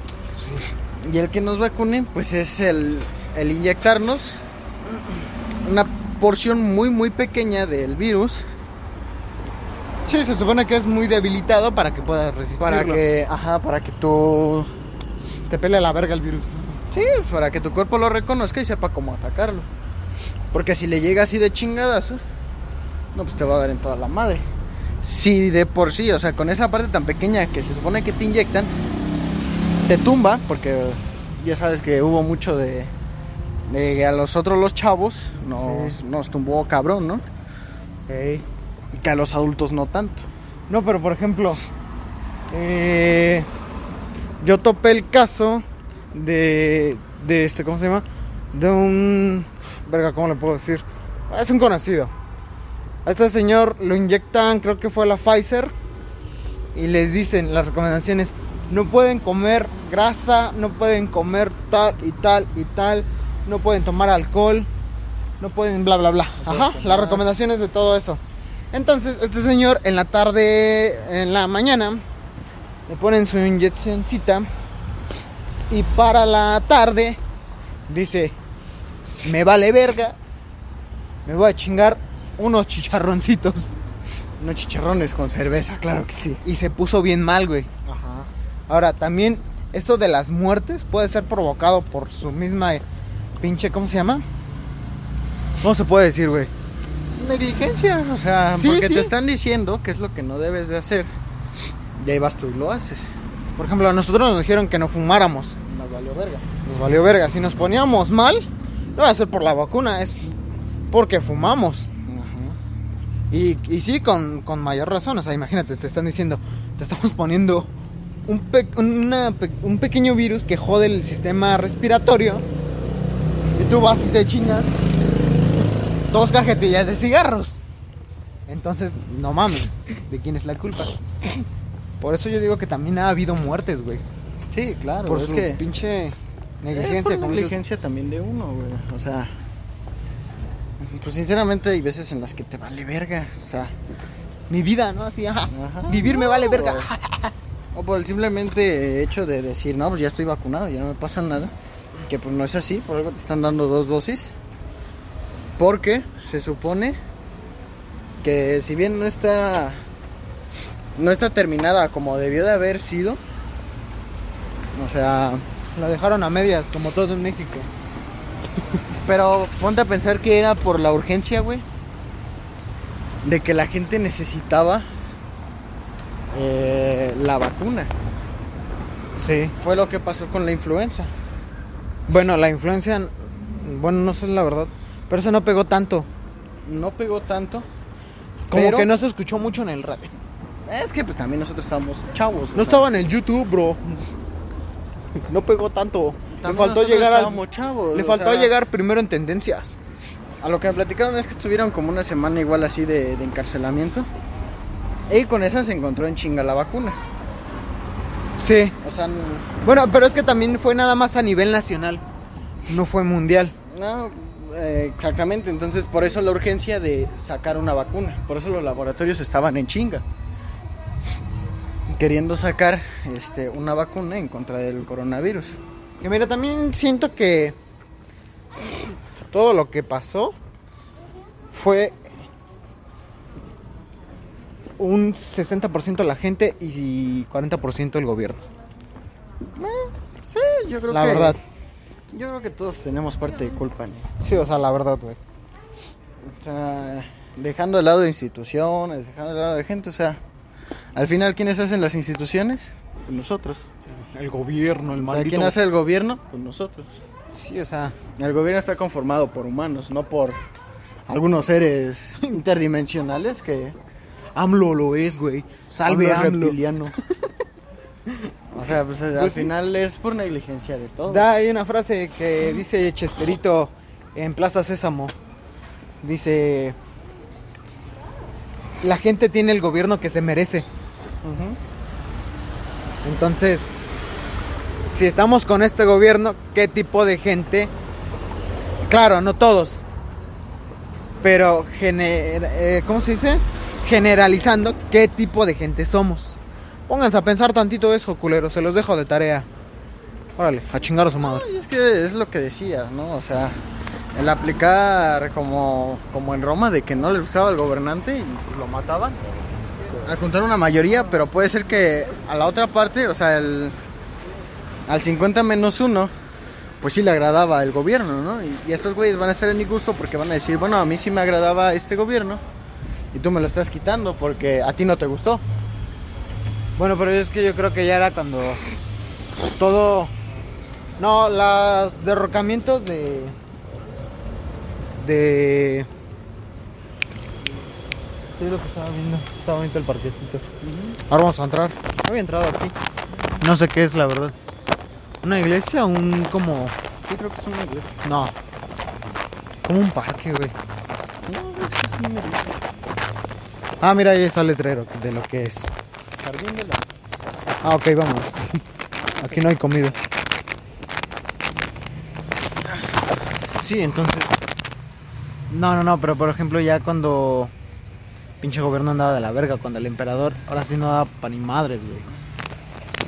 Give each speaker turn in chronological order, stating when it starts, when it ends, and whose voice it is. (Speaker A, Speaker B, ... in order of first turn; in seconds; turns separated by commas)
Speaker A: 0.3-0.7, Speaker B: 1.0-4.4, Speaker B: 5.6-8.4, Speaker A: 10.1-13.0, Speaker B: 12.6-14.7, Speaker A: 15.5-16.6, Speaker B: 16.9-19.7, Speaker B: 20.5-22.2, Speaker B: 23.1-24.4, Speaker B: 25.0-28.7, Speaker B: 29.8-32.9, Speaker B: 33.7-37.2, Speaker A: 35.5-36.0, Speaker A: 38.1-38.5, Speaker B: 39.0-40.3, Speaker A: 40.7-41.6, Speaker A: 42.5-43.5, Speaker A: 44.4-52.1, Speaker A: 53.0-55.7, Speaker A: 56.7-64.7, Speaker A: 65.4-68.2, Speaker B: 66.4-67.3, Speaker A: 68.7-72.0, Speaker A: 72.9-74.5, Speaker A: 75.7-77.2, Speaker A: 77.9-78.3, Speaker A: 79.2-80.2, Speaker A: 81.3-83.7, Speaker B: 84.4-86.4, Speaker A: 86.4-87.7, Speaker B: 87.9-88.3, Speaker A: 88.7-92.8, Speaker A: 93.4-94.2, Speaker A: 95.6-96.5, Speaker B: 97.1-101.1, Speaker A: 98.6-99.1, Speaker B: 102.0-103.1, Speaker A: 103.6-105.5, Speaker B: 105.6-106.5, Speaker A: 106.6-110.4, Speaker A: 110.9-111.9, Speaker B: 112.0-112.6, Speaker A: 113.3-117.7, Speaker A: 118.3-122.4, Speaker A: 123.5-124.7, Speaker A: 126.1-127.6, Speaker A: 128.5-131.0, Speaker A: 132.0-134.0, Speaker B: 134.5-135.6, Speaker A: 135.0-137.6, Speaker B: 136.7-139.3, Speaker B: 140.8-143.7, Speaker A: 144.5-147.3, Speaker B: 145.5-146.9, Speaker B: 147.7-151.5, Speaker B: 152.1-154.3, Speaker B: 155.6-157.0, Speaker B: 158.2-159.8, Speaker B: 160.9-163.2, Speaker B: 164.7-165.4, Speaker A: 165.7-167.7, Speaker B: 169.1-171.6, Speaker B: 173.2-174.9, Speaker B: 176.3-177.9, Speaker A: 179.2-179.6, Speaker B: 179.6-181.1, Speaker A: 182.1-186.1, Speaker B: 186.6-187.7, Speaker A: 188.5-190.1, Speaker B: 188.5-188.9, Speaker B: 190.7-192.9, Speaker A: 192.5-193.8, Speaker A: 195.2-197.4, Speaker B: 196.3-198.5, Speaker A: 197.9-199.8, Speaker B: 200.4-204.1, Speaker B: 205.1-207.0, Speaker A: 208.4-208.8, Speaker B: 208.8-209.5, Speaker A: 209.6-212.0, Speaker A: 212.7-213.6, Speaker B: 213.7-220.0, Speaker B: 221.9-225.6, Speaker A: 226.0-227.6, Speaker A: 229.2-230.3, Speaker A: 231.5-232.1, Speaker A: 234.8-238.4, Speaker B: 239.6-241.4, Speaker A: 240.9-241.4, Speaker B: 242.1-244.2, Speaker A: 244.2-245.2, Speaker B: 246.2-250.2, Speaker B: 250.9-253.6, Speaker A: 254.0-255.6, Speaker B: 255.0-256.9, Speaker A: 257.3-258.0, Speaker B: 258.2-260.4, Speaker B: 261.1-263.7, Speaker A: 264.4-266.6, Speaker B: 265.8-266.9, Speaker B: 268.5-271.3, Speaker A: 269.1-269.5, Speaker A: 271.1-275.1, Speaker A: 276.0-276.8, Speaker A: 278.8-280.7, Speaker B: 281.2-281.6, Speaker A: 283.0-283.8, Speaker A: 284.8-287.7, Speaker A: 288.8-289.8, Speaker A: 291.2-299.5, Speaker A: 300.4-301.5, Speaker B: 301.2-303.6, Speaker B: 304.1-309.2, Speaker B: 310.0-313.8, Speaker B: 314.9-316.1, Speaker B: 316.8-322.4, Speaker B: 323.1-325.4, Speaker A: 326.8-328.6, Speaker A: 329.6-330.1, Speaker A: 331.0-333.4, Speaker A: 334.9-335.9, Speaker A: 338.3-340.5, Speaker B: 340.6-341.0, Speaker A: 341.1-342.7, Speaker A: 343.4-344.3, Speaker A: 345.2-346.7, Speaker B: 347.0-347.9, Speaker A: 348.0-348.3, Speaker A: 349.6-350.6, Speaker B: 351.3-352.6, Speaker A: 353.8-355.7, Speaker B: 356.2-356.8, Speaker A: 357.6-358.3, Speaker B: 359.2-359.4, Speaker A: 359.2-360.0, Speaker A: 363.6-364.4, Speaker A: 365.5-367.5, Speaker A: 368.4-372.1